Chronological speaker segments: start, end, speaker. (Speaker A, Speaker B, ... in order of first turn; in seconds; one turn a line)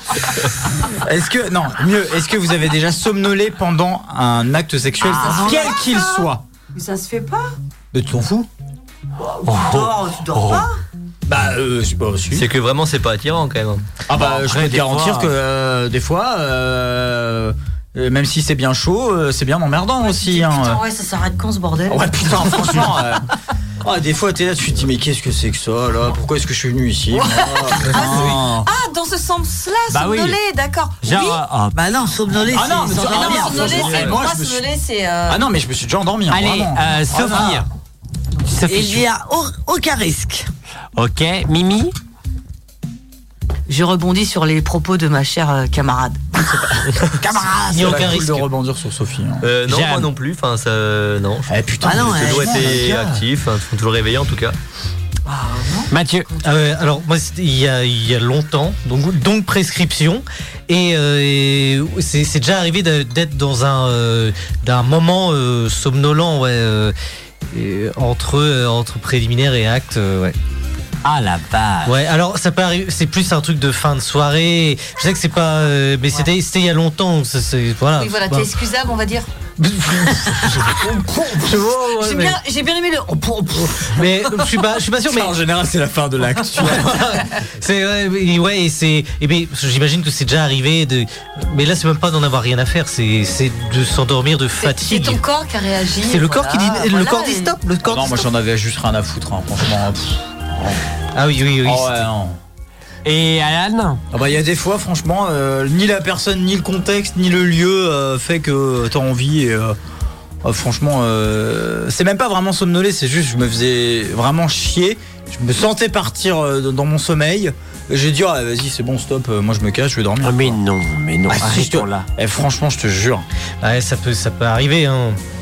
Speaker A: 1.0-6.4
Speaker B: 5.0-7.5
Speaker A: 7.9-8.5
Speaker C: 9.4-10.7
Speaker B: 9.5-10.8
Speaker A: 11.3-12.5
Speaker D: 12.3-13.8
Speaker A: 14.1-20.8
Speaker C: 14.1-15.3
Speaker B: 20.0-22.9
Speaker A: 21.9-23.2
Speaker A: 23.8-28.7
Speaker B: 27.1-31.4
Speaker C: 27.9-28.3
Speaker C: 29.9-30.4
Speaker C: 31.0-31.8
Speaker E: 31.7-34.1
Speaker A: 32.5-34.6
Speaker B: 33.0-35.4
Speaker A: 35.3-37.6
Speaker C: 36.3-37.7
Speaker C: 38.5-39.0
Speaker E: 38.6-40.5
Speaker C: 41.0-41.9
Speaker B: 43.7-46.2
Speaker A: 46.4-49.5
Speaker E: 47.2-48.0
Speaker F: 47.7-48.4
Speaker D: 49.4-51.5
Speaker C: 49.7-50.1
Speaker A: 51.5-53.2
Speaker E: 51.8-53.2
Speaker D: 52.0-54.5
Speaker B: 55.3-55.9
Speaker C: 55.9-56.3
Speaker F: 56.4-66.9
Speaker F: 67.5-70.3
Speaker C: 71.0-71.9
Speaker F: 71.8-78.5
Speaker B: 78.0-79.3
Speaker F: 79.7-80.5
Speaker F: 81.2-82.4
Speaker B: 82.0-84.3
Speaker F: 83.9-85.3
Speaker A: 85.1-87.2
Speaker F: 87.6-95.2
Speaker B: 94.6-97.6
Speaker F: 96.0-98.1
Speaker A: 97.8-100.7
Speaker F: 101.1-102.0
Speaker A: 101.6-102.4
Speaker C: 103.0-104.0
Speaker A: 104.1-109.8
Speaker A: 110.4-120.6
Speaker C: 120.2-122.0
Speaker A: 121.3-123.2
Speaker F: 123.6-125.2